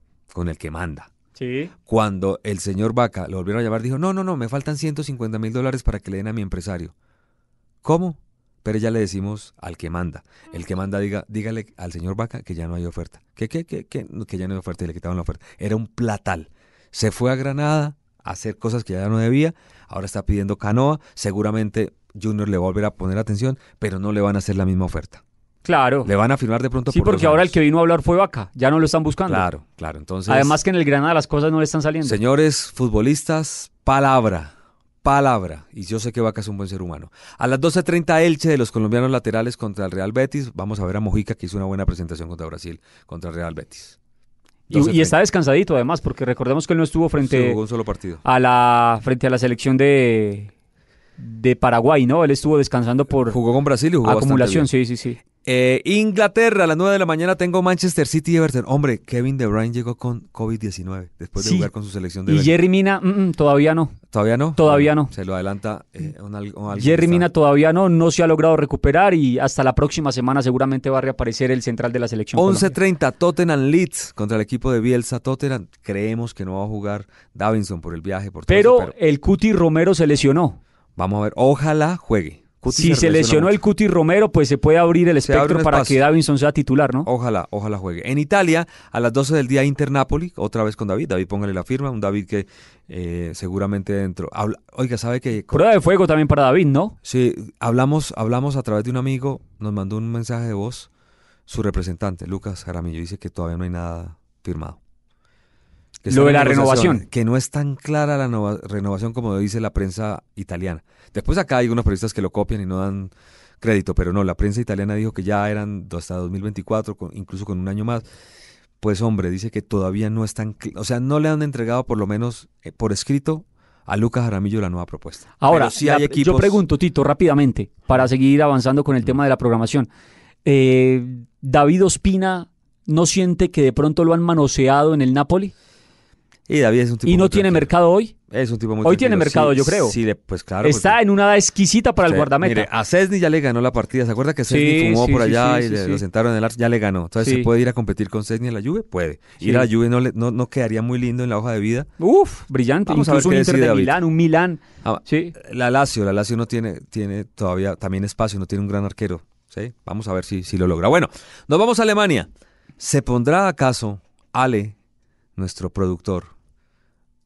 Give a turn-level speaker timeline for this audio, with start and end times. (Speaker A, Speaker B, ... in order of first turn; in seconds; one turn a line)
Speaker A: 0.3-1.1
Speaker B: 1.4-1.7
Speaker A: 1.9-6.9
Speaker A: 7.8-25.2
Speaker B: 25.6-26.1
Speaker A: 26.0-27.5
Speaker B: 26.9-29.4
Speaker A: 29.3-30.5
Speaker B: 30.3-32.2
Speaker A: 32.0-34.5
Speaker A: 35.0-44.0
Speaker B: 44.7-47.6
Speaker A: 44.7-45.1
Speaker A: 47.2-48.2
Speaker B: 48.2-50.5
Speaker B: 51.2-53.4
Speaker A: 53.3-54.7
Speaker B: 54.0-55.2
Speaker A: 55.4-62.6
Speaker B: 61.4-61.7
Speaker B: 62.2-64.0
Speaker A: 64.1-67.3
Speaker B: 64.5-65.1
Speaker B: 66.7-72.8
Speaker A: 72.3-78.9
Speaker B: 78.5-80.6
Speaker A: 81.0-83.5
Speaker B: 82.7-87.1
Speaker A: 85.2-86.0
Speaker A: 87.0-95.7
Speaker B: 95.5-96.9
Speaker A: 97.0-100.9
Speaker A: 101.5-104.8
Speaker A: 106.0-118.0
Speaker B: 106.1-107.0
Speaker A: 118.8-126.6
Speaker B: 125.4-129.9
Speaker B: 130.4-135.5
Speaker A: 136.5-137.7
Speaker B: 137.0-138.1
Speaker A: 138.3-141.0
Speaker B: 138.8-140.0
Speaker B: 140.6-142.7
Speaker A: 142.1-151.9
Speaker B: 144.5-146.0
Speaker B: 147.2-147.5
Speaker B: 149.4-149.7
Speaker B: 152.0-155.3
Speaker A: 152.9-154.0
Speaker A: 154.8-162.3
Speaker A: 162.8-164.8
Speaker A: 165.4-166.3